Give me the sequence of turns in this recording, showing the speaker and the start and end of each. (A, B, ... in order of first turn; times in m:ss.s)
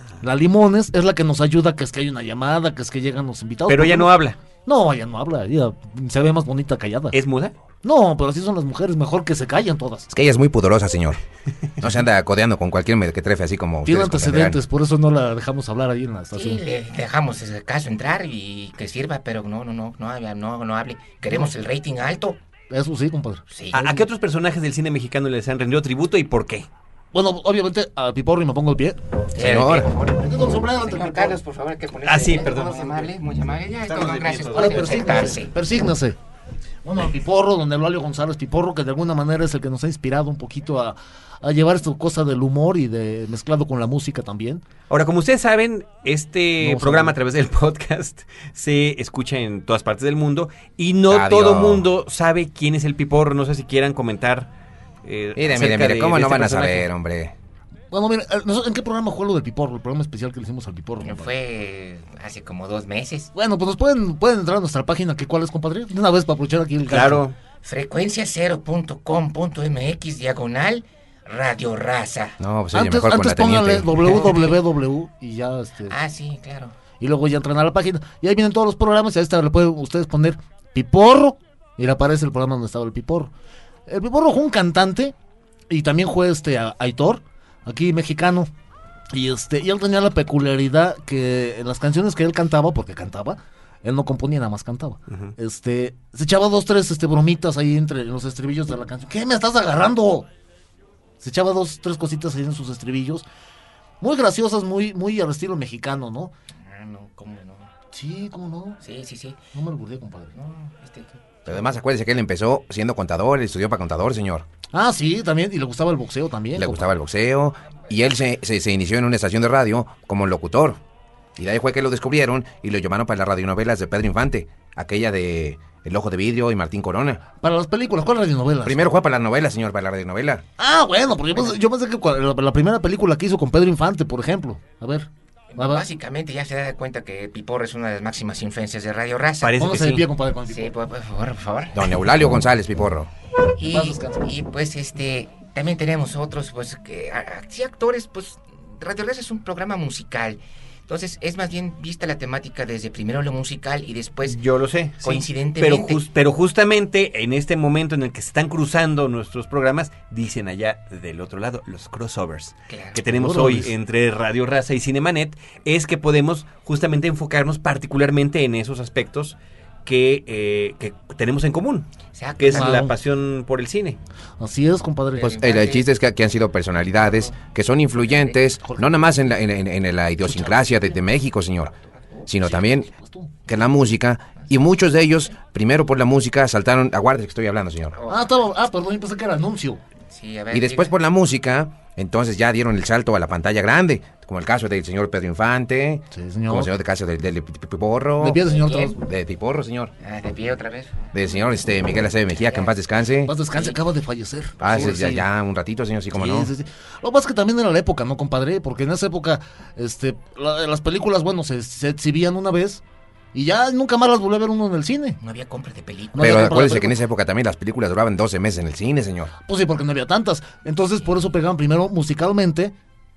0:00.2-0:04.1 A
0:03.7-0:04.4 B
0:04.6-0:07.2 A
0:07.1-0:07.5 B
0:07.8-0:10.1 A
0:10.1-0:11.2 C
0:11.8-0:14.6 C
0:13.8-0:16.6 A
0:16.3-0:22.4 D
0:21.2-0:21.5 A
0:22.7-0:24.0 A
0:23.5-0:23.8 D
0:23.7-0:26.7 B
0:27.1-0:29.0 A
0:29.3-0:35.5 D
0:29.4-0:29.9 C
0:30.1-0:31.4 A
0:32.0-0:33.0 B
0:33.8-0:35.2 B
0:34.5-0:36.2 A
0:36.8-0:44.6 A
0:44.9-0:54.5 B
0:46.6-0:47.2 A
0:51.1-0:51.9 C
0:55.0-0:56.9 B
0:55.4-0:57.3 C
0:57.9-1:01.3 A
1:01.0-1:03.3 D
1:03.3-1:07.2 A
1:06.9-1:07.4 B
1:07.6-1:12.3 D
1:12.4-1:14.0 C
1:12.7-1:15.9 A
1:14.0-1:14.5 D
1:15.9-1:16.7 D
1:17.0-1:23.3 A
1:23.9-1:25.1 A
1:25.7-1:28.5 A
1:29.1-1:40.3 A
1:41.2-1:43.2 A
1:44.0-1:46.3 A
1:46.6-1:47.7 D
1:47.9-1:48.8 A
1:48.8-1:49.4 D
1:49.5-1:50.3 A
1:50.3-1:51.5 D
1:51.4-1:54.4 C
1:54.7-1:56.9 A
1:56.6-2:00.8 C
2:01.4-2:07.2 C
2:07.4-2:09.0 A
2:08.6-2:10.4 C
2:10.6-2:15.8 A
2:15.5-2:19.6 D
2:19.4-2:20.1 B
2:19.5-2:20.7 A
2:20.5-2:21.9 D
2:21.7-2:23.1 C
2:23.5-2:34.4 D
2:23.7-2:24.3 A
2:34.2-2:54.0 B
2:35.0-2:36.0 D
2:42.7-2:43.0 D
2:43.0-2:43.7 A
2:52.1-2:52.8 D
2:52.5-2:52.9 A
2:54.4-2:55.4 A
2:55.2-2:55.9 D
2:55.2-3:01.7 C
2:57.0-2:57.3 D
2:58.0-2:58.4 D
2:58.6-2:59.1 A
3:00.2-3:00.9 A
3:02.3-3:02.9 C
3:02.4-3:03.3 A
3:03.4-3:08.0 C
3:07.9-3:08.2 D
3:08.1-3:09.8 A
3:10.1-3:10.9 D
3:10.5-3:18.4 C
3:16.1-3:16.7 A
3:18.2-3:19.0 A
3:18.5-3:19.0 D
3:19.0-3:19.9 C
3:20.0-3:21.0 D
3:21.1-3:23.3 C
3:22.4-3:22.7 D
3:23.2-3:25.3 A
3:24.6-3:26.5 C
3:26.1-3:32.8 A
3:33.3-3:35.2 A
3:35.2-3:36.6 D
3:36.1-3:37.0 A
3:36.2-3:39.3 C
3:39.4-3:42.7 A